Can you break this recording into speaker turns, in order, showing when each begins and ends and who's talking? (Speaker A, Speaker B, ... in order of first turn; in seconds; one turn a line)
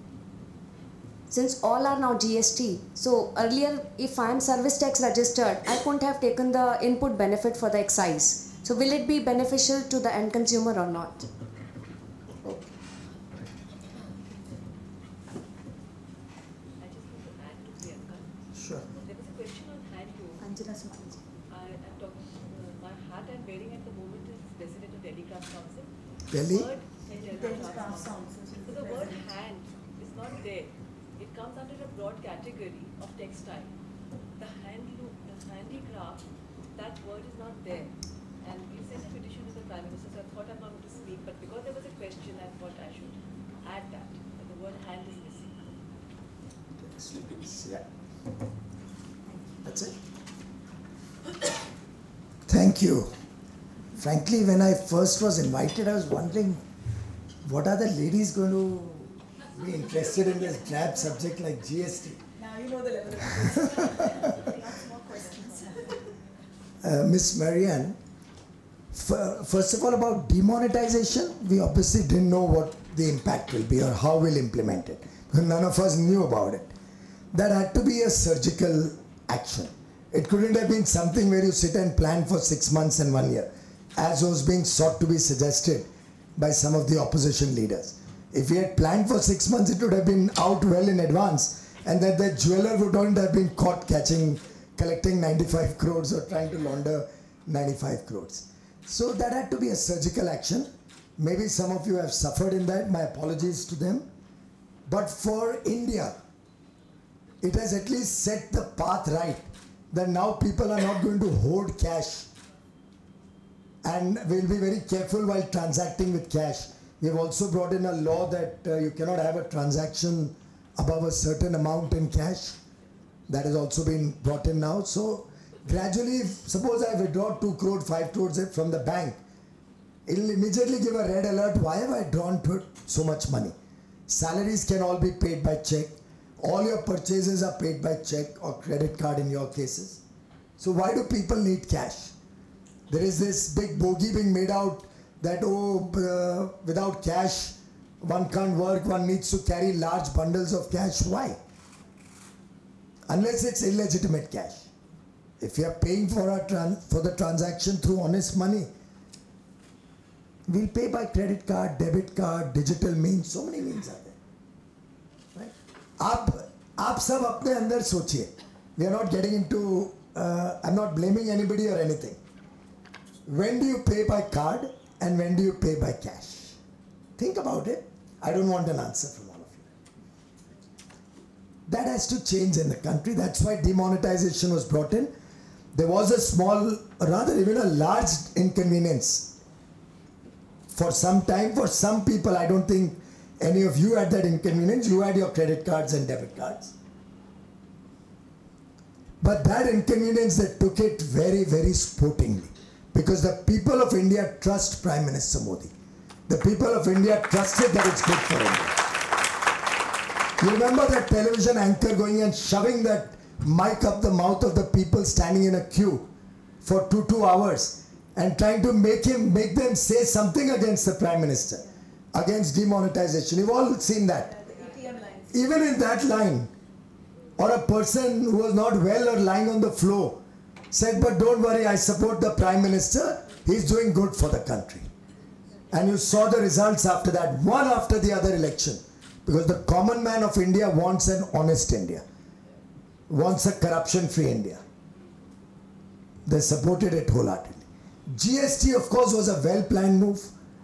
Speaker A: 1.3-11.3
Speaker B: 12.4-12.7
Speaker C: 16.8-18.3
Speaker B: 18.5-18.9
Speaker C: 18.9-20.4
Speaker D: 20.4-21.2
Speaker C: 21.5-33.7
Speaker B: 26.3-26.7
Speaker D: 27.1-29.3
Speaker C: 34.4-45.6
Speaker B: 46.8-47.8
Speaker D: 49.3-49.6
Speaker B: 49.6-49.9
Speaker B: 52.5-53.1
Speaker B: 54.0-56.6
Speaker B: 57.4-62.2
Speaker D: 62.4-66.0
Speaker B: 63.4-64.5
Speaker B: 66.8-68.0
Speaker B: 68.9-76.7
Speaker B: 77.3-104.0
Speaker B: 104.8-106.1
Speaker B: 107.4-112.3
Speaker B: 113.8-122.6
Speaker B: 123.3-129.2
Speaker B: 130.1-133.6
Speaker B: 134.1-140.0
Speaker B: 140.6-142.1
Speaker B: 142.9-151.4
Speaker B: 153.1-154.7
Speaker B: 155.4-158.7
Speaker B: 160.5-164.2
Speaker B: 165.3-172.2
Speaker B: 173.2-176.6
Speaker B: 177.2-179.7
Speaker B: 181.7-185.1
Speaker B: 185.7-189.3
Speaker B: 190.7-196.7
Speaker B: 199.2-205.7
Speaker B: 206.3-208.8
Speaker B: 210.4-216.1
Speaker B: 216.6-224.3
Speaker D: 224.1-225.7
Speaker B: 225.3-226.5
Speaker B: 227.4-230.2
Speaker B: 230.7-234.9
Speaker B: 235.7-242.0
Speaker B: 243.1-244.6
Speaker B: 246.2-250.3